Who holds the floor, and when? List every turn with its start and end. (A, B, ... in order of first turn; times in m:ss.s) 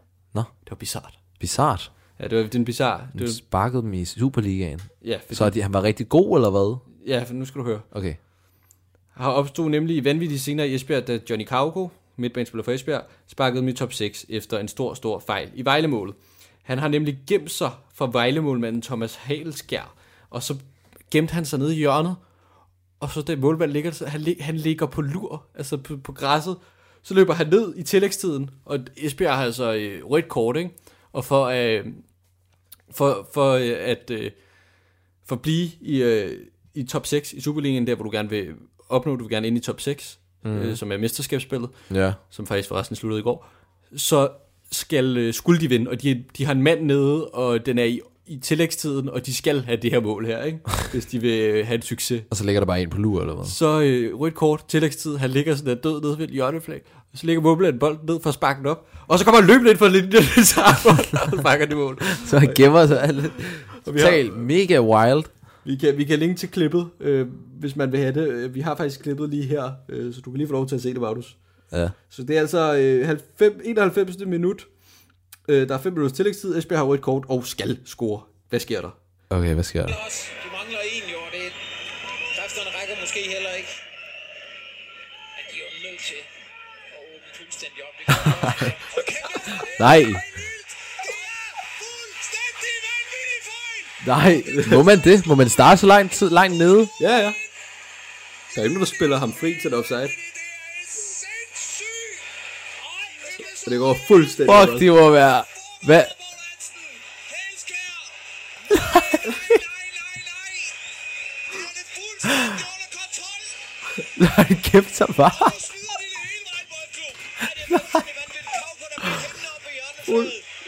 0:00.6-0:01.2 A
0:01.4-0:01.9 B
0:02.2-0:03.4 A
0:03.1-0:06.8 B
0:05.0-0:05.5 A
0:07.0-0:07.8 A
0:07.9-0:08.2 B
0:09.2-0:22.2 A
0:23.0-0:32.0 A
0:32.9-0:34.4 A
0:35.2-0:52.3 A
0:40.4-0:40.8 B
0:41.9-0:42.2 B
0:52.3-0:53.6 B
0:53.4-1:03.1 A
1:02.2-1:05.3 B
1:03.8-1:04.5 A
1:05.6-1:11.4 A
1:12.1-1:14.7 A
1:15.5-1:18.9 A
1:19.3-1:20.0 B
1:19.8-1:21.6 C
1:22.3-1:23.7 C
1:25.4-1:26.3 C
1:26.9-1:30.5 C
1:28.3-1:28.6 B
1:29.6-1:30.2 B
1:31.0-1:33.9 C
1:34.0-1:36.9 B
1:34.5-1:34.8 A
1:37.0-1:37.4 A
1:38.5-1:40.1 A
1:40.2-1:42.2 C
1:42.8-1:43.9 C
1:43.6-1:44.9 A
1:44.4-1:46.1 B
1:45.6-1:48.2 C
1:48.7-1:49.2 B
1:48.7-1:50.8 C
1:51.5-1:53.6 C
1:54.2-1:55.7 B
1:55.3-2:00.4 C
1:57.7-1:58.0 B
2:00.1-2:00.3 B